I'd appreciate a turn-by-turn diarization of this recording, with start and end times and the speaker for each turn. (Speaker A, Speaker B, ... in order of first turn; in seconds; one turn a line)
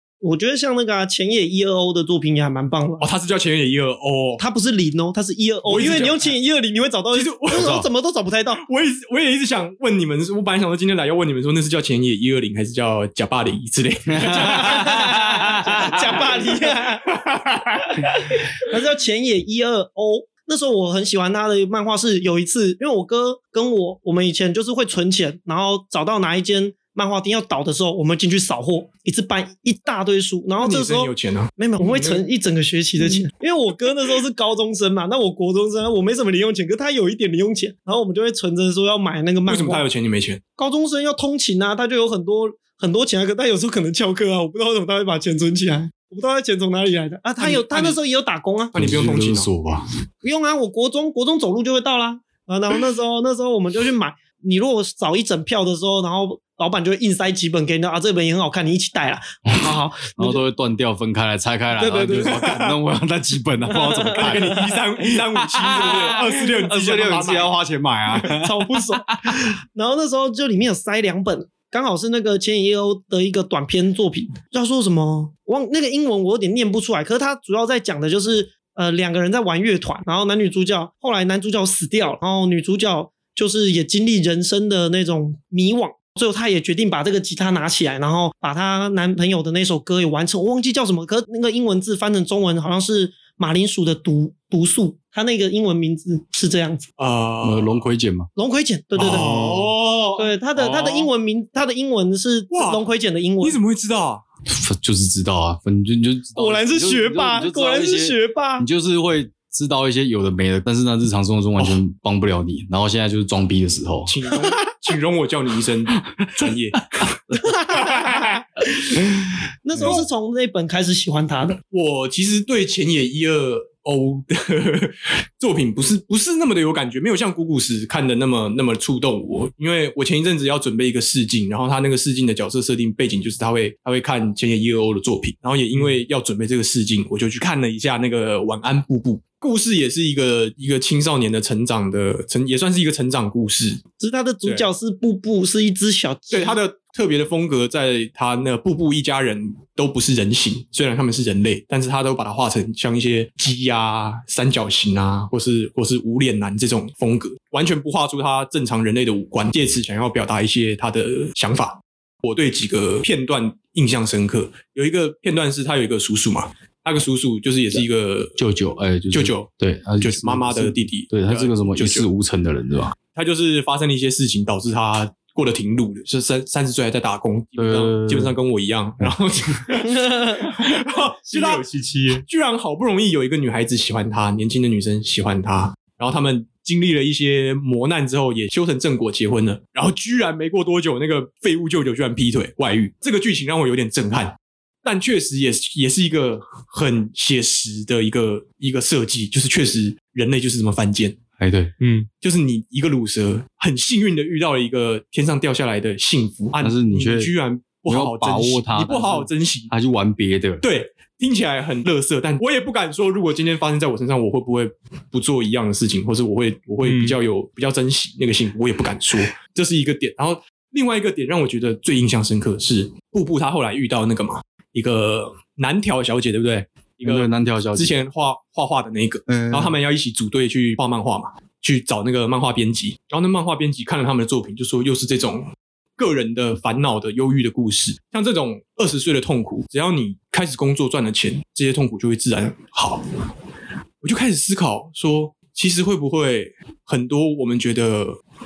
Speaker A: 0.2-3.1
Speaker B: 3.0-4.4
Speaker A: 4.4-8.6
Speaker B: 5.7-6.3
Speaker B: 7.1-7.7
Speaker C: 7.5-7.8
Speaker B: 8.6-18.0
Speaker C: 14.2-14.5
Speaker A: 14.2-17.1
Speaker A: 17.9-39.8
Speaker B: 30.6-32.2
Speaker B: 39.5-40.4
Speaker A: 40.6-48.8
Speaker B: 47.4-48.0
Speaker B: 48.7-49.5
Speaker C: 48.7-49.8
Speaker A: 50.2-60.4
Speaker C: 59.6-69.4
Speaker A: 61.8-62.5
Speaker B: 62.2-62.8
Speaker A: 63.8-64.5
Speaker B: 64.1-67.5
Speaker A: 68.2-96.8
Speaker B: 97.0-97.8
Speaker C: 97.4-98.3
Speaker A: 98.3-99.3
Speaker D: 99.0-99.8
Speaker B: 99.0-100.3
Speaker A: 100.2-103.6
Speaker D: 100.5-101.1
Speaker B: 102.5-102.8
Speaker B: 103.4-104.2
Speaker C: 104.5-114.1
Speaker A: 106.4-108.7
Speaker B: 114.1-117.1
Speaker A: 117.4-118.4
Speaker B: 117.7-118.4
Speaker A: 119.6-121.6
Speaker B: 121.7-143.8
Speaker A: 144.0-146.6
Speaker B: 146.3-168.4
Speaker C: 168.4-172.9
Speaker B: 169.1-172.1
Speaker B: 173.1-181.7
Speaker C: 177.6-178.3
Speaker C: 179.0-179.5
Speaker A: 179.8-180.6
Speaker D: 181.3-182.2
Speaker B: 182.2-201.2
Speaker C: 201.4-201.7
Speaker D: 201.8-202.1
Speaker B: 202.2-209.7
Speaker C: 206.6-207.3
Speaker C: 207.9-210.6
Speaker B: 210.6-243.0
Speaker D: 216.8-217.2
Speaker C: 227.0-227.9
Speaker C: 229.3-229.8
Speaker B: 244.0-248.2